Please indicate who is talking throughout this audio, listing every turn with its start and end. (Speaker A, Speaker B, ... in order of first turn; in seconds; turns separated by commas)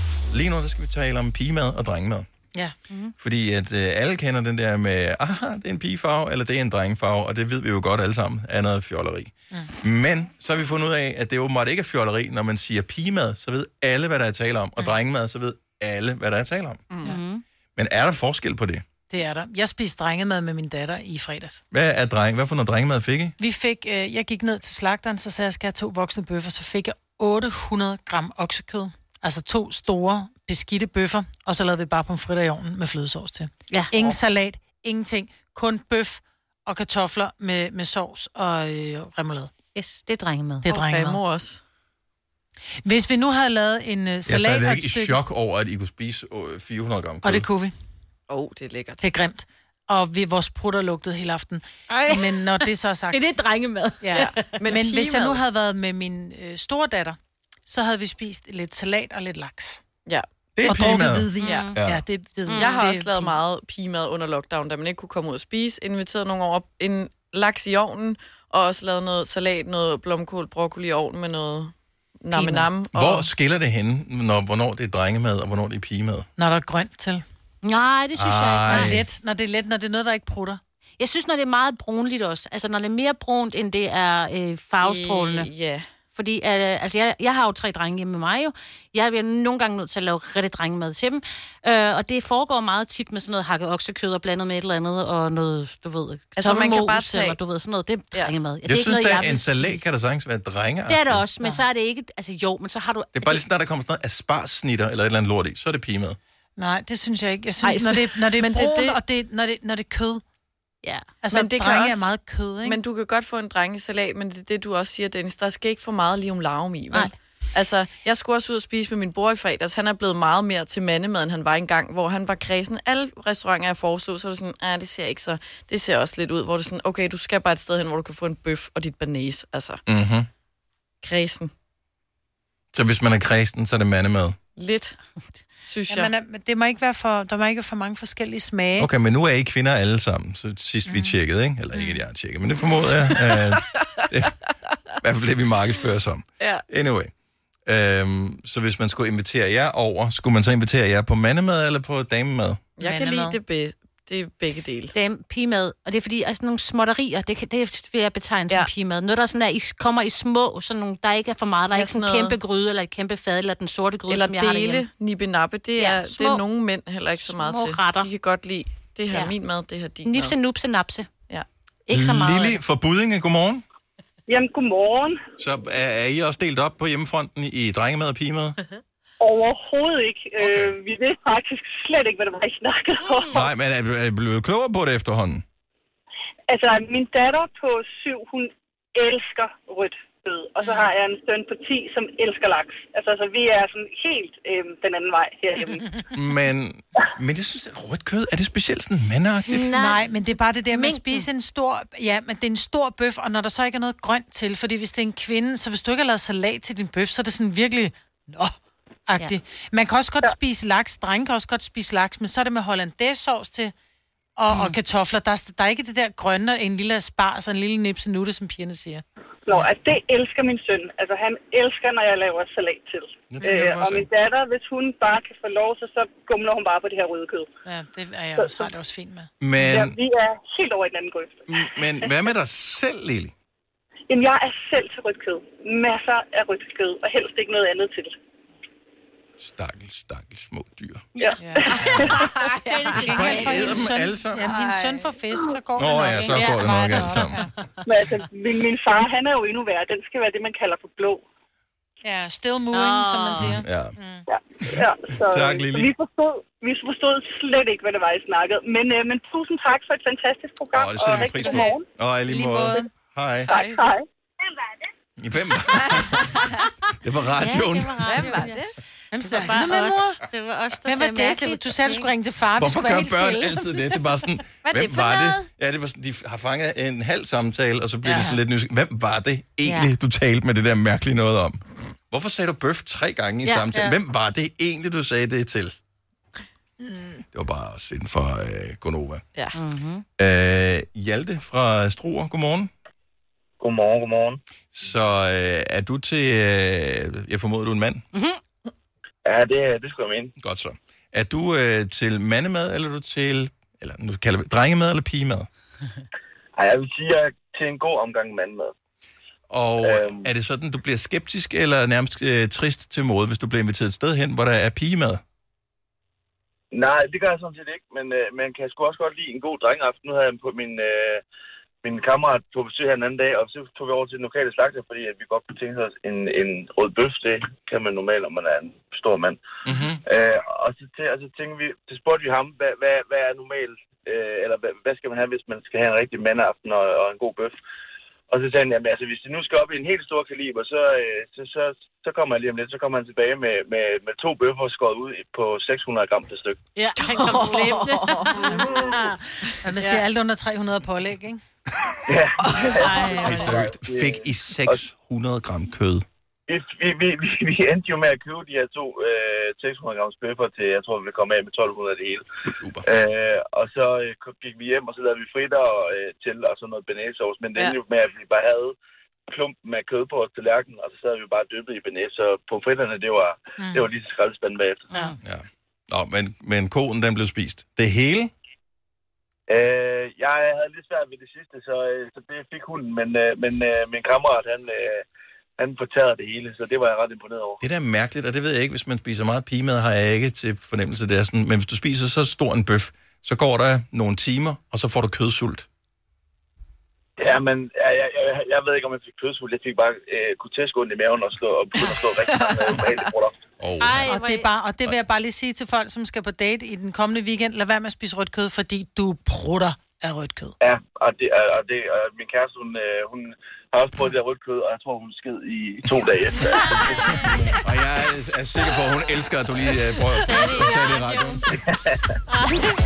Speaker A: 0.3-2.3, Speaker A: 3.2-17.0, Speaker B: 17.0-17.4, Speaker A: 17.8-18.8, Speaker C: 19.1-21.6, Speaker A: 21.7-23.4, Speaker C: 23.4-39.5, Speaker B: 33.7-34.2, Speaker B: 39.7-40.6, Speaker C: 40.6-41.2, Speaker D: 40.6-41.6, Speaker C: 42.8-45.2, Speaker A: 44.2-47.5, Speaker C: 47.2-47.7, Speaker D: 48.3-49.0, Speaker C: 49.0-53.2, Speaker B: 51.9-54.7, Speaker C: 54.0-59.8, Speaker D: 54.1-55.4, Speaker D: 60.0-61.8, Speaker A: 60.5-62.0, Speaker C: 60.6-63.4, Speaker B: 61.4-61.8, Speaker B: 62.5-62.8, Speaker D: 62.5-73.3, Speaker B: 72.3-72.6, Speaker A: 72.9-76.3, Speaker C: 76.4-77.2, Speaker B: 77.6-78.9, Speaker A: 78.1-79.0, Speaker C: 78.7-80.6, Speaker B: 81.0-85.5, Speaker D: 84.8-85.8, Speaker B: 86.1-99.8, Speaker D: 96.4-97.4, Speaker A: 98.6-101.2, Speaker B: 100.9-103.4, Speaker A: 103.1-106.2, Speaker C: 106.6-110.2, Speaker D: 107.6-109.0, Speaker B: 110.8-111.1, Speaker C: 111.2-112.8, Speaker D: 111.3-112.1, Speaker D: 112.6-129.8, Speaker A: 129.9-130.3, Speaker D: 131.0-131.5, Speaker A: 132.7-134.3, Speaker D: 134.6-135.0, Speaker D: 135.6-136.1, Speaker C: 135.9-138.9, Speaker A: 138.8-144.4, Speaker C: 140.9-141.1, Speaker C: 141.7-142.0, Speaker A: 145.0-147.1, Speaker A: 147.7-152.6, Speaker D: 152.8-154.9, Speaker C: 152.8-153.4, Speaker B: 154.9-164.8, Speaker D: 161.7-162.4, Speaker D: 164.1-170.4, Speaker B: 165.8-166.4, Speaker B: 167.1-168.1, Speaker B: 170.0-171.1, Speaker B: 171.9-172.6, Speaker A: 171.9-173.6, Speaker E: 174.3-175.2, Speaker A: 175.4-178.6, Speaker E: 179.2-183.5, Speaker A: 180.4-180.8, Speaker A: 183.3-185.4, Speaker E: 186.5-195.9, Speaker A: 196.1-199.7, Speaker B: 199.5-200.0, Speaker C: 199.7-208.6, Speaker B: 200.7-201.2, Speaker C: 209.1-213.7, Speaker C: 214.4-219.0, Speaker E: 219.4-227.5, Speaker A: 223.3-224.1, Speaker C: 227.7-229.3, Speaker E: 228.3-228.7, Speaker A: 229.4-229.9, Speaker E: 229.6-232.1, Speaker A: 231.5-233.3, Speaker E: 234.1-238.1, Speaker A: 239.4-241.1, Speaker B: 241.2-242.1, Speaker E: 241.2-242.3, Speaker D: 241.9-243.3, Speaker B: 242.7-243.8, Speaker C: 242.9-247.5, Speaker A: 243.0-244.5, Speaker D: 244.4-245.2, Speaker A: 245.8-247.4, Speaker B: 246.3-247.3, Speaker E: 247.8-251.2, Speaker C: 252.0-254.2, Speaker B: 252.7-253.6, Speaker A: 253.3-253.9, Speaker E: 254.3-261.9, Speaker A: 254.6-255.9, Speaker A: 260.7-263.5, Speaker C: 262.2-262.9, Speaker E: 263.5-264.7, Speaker D: 263.5-263.8, Speaker A: 265.2-266.4, Speaker A: 267.0-268.4, Speaker B: 267.4-268.6, Speaker D: 268.0-268.7, Speaker C: 269.1-270.1, Speaker B: 269.2-272.1, Speaker C: 270.8-273.6, Speaker A: 272.6-285.7, Speaker B: 274.8-275.4, Speaker C: 278.1-278.4, Speaker B: 279.6-279.9, Speaker B: 283.4-283.9, Speaker C: 286.8-287.2, Speaker A: 287.3-289.2, Speaker B: 289.5-290.0, Speaker A: 290.2-292.7, Speaker F: 293.6-294.4, Speaker A: 294.7-298.0, Speaker F: 299.2-300.3, Speaker A: 300.4-305.5, Speaker F: 306.6-308.7, Speaker A: 309.5-315.2, Speaker F: 309.8-310.3, Speaker F: 316.7-321.2, Speaker F: 321.8-329.4, Speaker A: 329.6-330.0, Speaker F: 330.1-337.6, Speaker F: 338.3-346.6, Speaker B: 346.8-349.1, Speaker D: 347.0-348.7, Speaker C: 348.4-351.4, Speaker D: 349.8-350.0, Speaker F: 352.1-354.8, Speaker B: 352.8-353.5, Speaker A: 353.1-356.0, Speaker D: 353.3-353.6, Speaker F: 356.5-362.2, Speaker A: 362.6-362.8, Speaker F: 362.8-368.7, Speaker F: 369.3-374.9, Speaker C: 373.6-373.9, Speaker B: 374.9-375.2, Speaker A: 375.2-378.3, Speaker F: 379.5-385.0, Speaker F: 385.6-387.6, Speaker A: 387.6-395.6, Speaker F: 397.2-403.4, Speaker D: 401.8-403.1, Speaker A: 403.6-404.1, Speaker B: 403.8-404.5, Speaker C: 404.0-410.6, Speaker F: 410.6-417.1, Speaker B: 416.5-417.5, Speaker A: 417.3-421.5, Speaker B: 420.0-421.4, Speaker F: 421.7-421.9, Speaker B: 422.3-422.7